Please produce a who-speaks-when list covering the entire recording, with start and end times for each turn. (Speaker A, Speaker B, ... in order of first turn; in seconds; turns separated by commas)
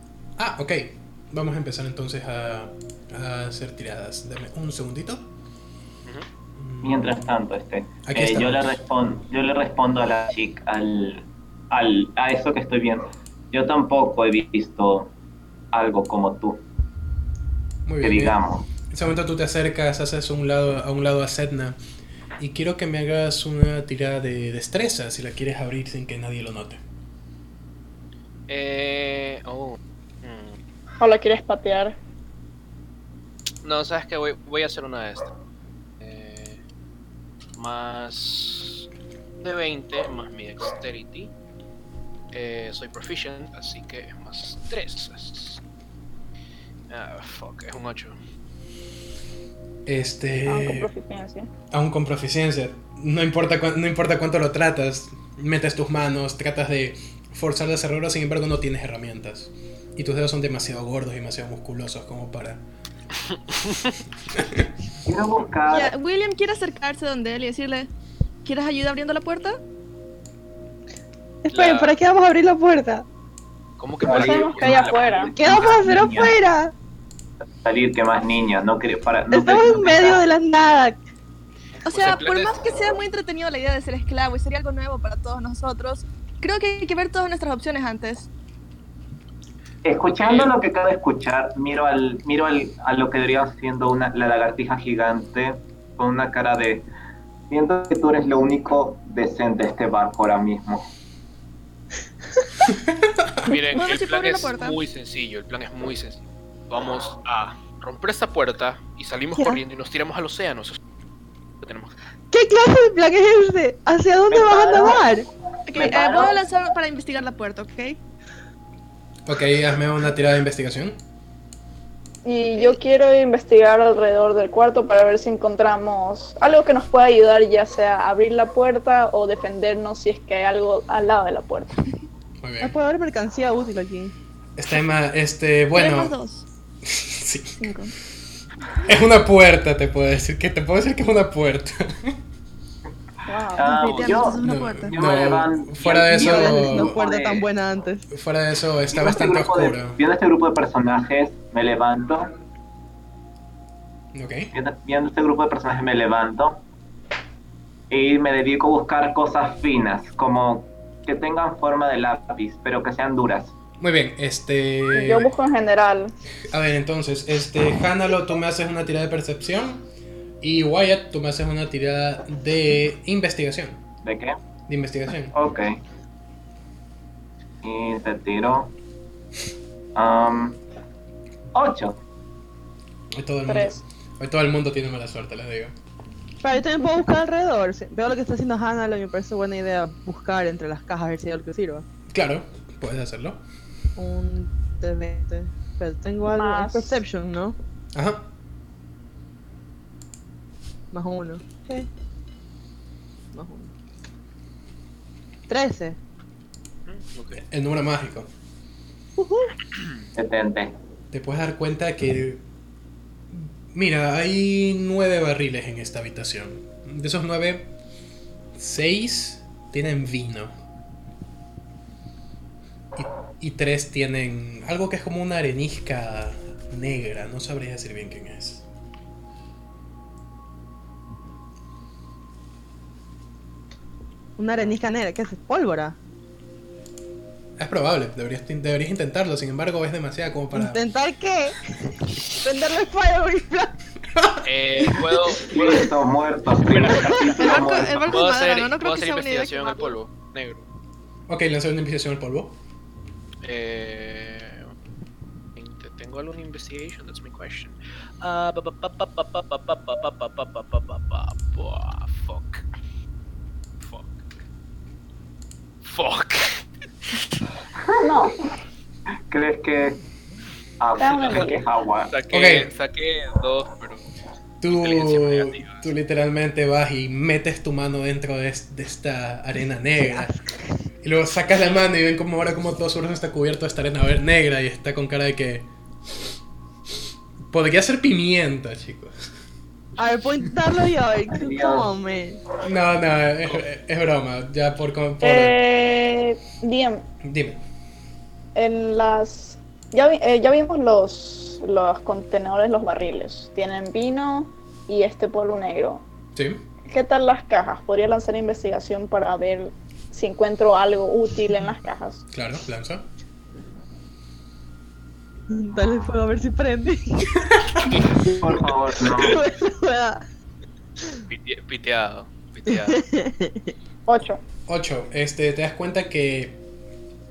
Speaker A: 0.4-5.3, Speaker A: 6.6-7.2, Speaker B: 6.8-15.1, Speaker A: 8.1-8.8, Speaker B: 15.7-16.6, Speaker A: 17.9-18.4, Speaker B: 18.0-18.7, Speaker A: 18.9-21.8, Speaker A: 22.4-26.8, Speaker C: 28.5-30.6, Speaker D: 31.0-32.0, Speaker C: 33.6-35.3, Speaker C: 36.0-36.6, Speaker C: 37.6-38.9, Speaker C: 39.4-41.3, Speaker C: 42.3-45.6, Speaker C: 46.9-48.2, Speaker A: 49.9-50.9, Speaker D: 50.5-51.5, Speaker A: 51.7-62.6, Speaker A: 64.3-64.6, Speaker B: 65.0-65.9, Speaker E: 65.7-67.9, Speaker E: 68.5-69.6, Speaker F: 71.4-73.0, Speaker C: 71.5-72.0, Speaker C: 73.8-75.8, Speaker B: 74.0-76.3, Speaker D: 74.1-75.3, Speaker F: 75.4-76.7, Speaker B: 77.6-80.2, Speaker F: 79.3-81.0, Speaker E: 81.8-88.3, Speaker C: 81.8-82.6, Speaker B: 89.8-96.9, Speaker C: 90.1-90.5, Speaker B: 97.5-100.8, Speaker C: 103.5-110.8, Speaker E: 103.5-104.8, Speaker C: 111.6-111.9, Speaker F: 112.3-115.3, Speaker B: 114.3-115.0, Speaker E: 115.7-118.0, Speaker B: 115.7-116.4, Speaker A: 119.3-121.0, Speaker D: 122.2-131.7, Speaker A: 132.4-132.7, Speaker F: 132.6-134.1, Speaker A: 134.6-136.1, Speaker E: 135.7-136.4, Speaker A: 136.8-137.7, Speaker E: 137.6-137.9, Speaker A: 138.8-142.2, Speaker D: 143.3-143.8, Speaker B: 143.6-147.4, Speaker E: 143.6-145.0, Speaker A: 144.4-147.0, Speaker F: 146.1-148.1, Speaker A: 148.1-150.0, Speaker B: 148.9-152.3, Speaker A: 154.1-154.5, Speaker B: 154.5-156.6, Speaker B: 157.9-163.6, Speaker A: 163.8-165.3, Speaker D: 164.9-166.1, Speaker A: 166.5-169.8, Speaker A: 170.4-173.8, Speaker B: 174.0-174.4, Speaker A: 174.7-175.3, Speaker B: 175.3-175.8, Speaker B: 177.6-178.7, Speaker B: 179.9-180.6, Speaker B: 181.5-182.0, Speaker A: 183.1-185.7, Speaker D: 183.5-183.8, Speaker F: 186.4-191.9, Speaker A: 192.1-193.4, Speaker F: 194.0-197.6, Speaker D: 196.3-197.0, Speaker A: 197.9-198.3, Speaker F: 200.9-201.9, Speaker F: 203.3-203.7, Speaker F: 205.5-206.0, Speaker C: 206.9-207.4, Speaker A: 207.5-208.3, Speaker F: 209.2-209.5, Speaker B: 210.2-210.8, Speaker A: 211.1-212.4, Speaker A: 213.3-217.7, Speaker A: 218.6-220.5, Speaker A: 223.0-228.7, Speaker F: 234.4-236.0, Speaker A: 237.6-240.8, Speaker F: 240.5-241.6, Speaker F: 242.4-243.8, Speaker C: 244.4-245.7, Speaker B: 245.4-248.1, Speaker C: 246.7-250.7, Speaker F: 246.9-247.2, Speaker E: 247.4-250.0, Speaker A: 251.3-252.6, Speaker C: 253.4-254.7, Speaker C: 255.6-262.6, Speaker C: 263.8-264.2, Speaker C: 265.8-267.4, Speaker B: 267.8-268.3, Speaker D: 268.0-268.4, Speaker B: 269.3-270.0, Speaker B: 270.8-272.1, Speaker D: 271.0-271.6, Speaker C: 271.2-271.5, Speaker C: 272.1-274.0, Speaker A: 272.3-272.7, Speaker A: 274.6-280.3, Speaker C: 274.7-275.8, Speaker F: 280.0-280.7, Speaker A: 281.0-285.7, Speaker A: 287.5-289.1, Speaker F: 290.0-292.4, Speaker B: 291.3-291.9, Speaker A: 292.6-295.6, Speaker D: 295.2-297.1, Speaker A: 297.2-297.6, Speaker D: 298.6-306.0, Speaker A: 306.4-306.6, Speaker D: 306.9-312.2, Speaker A: 312.3-313.1, Speaker F: 315.5-317.4, Speaker B: 318.2-319.4, Speaker F: 319.0-320.2, Speaker C: 321.3-323.0, Speaker F: 322.7-323.7, Speaker D: 324.1-324.4, Speaker A: 324.7-326.6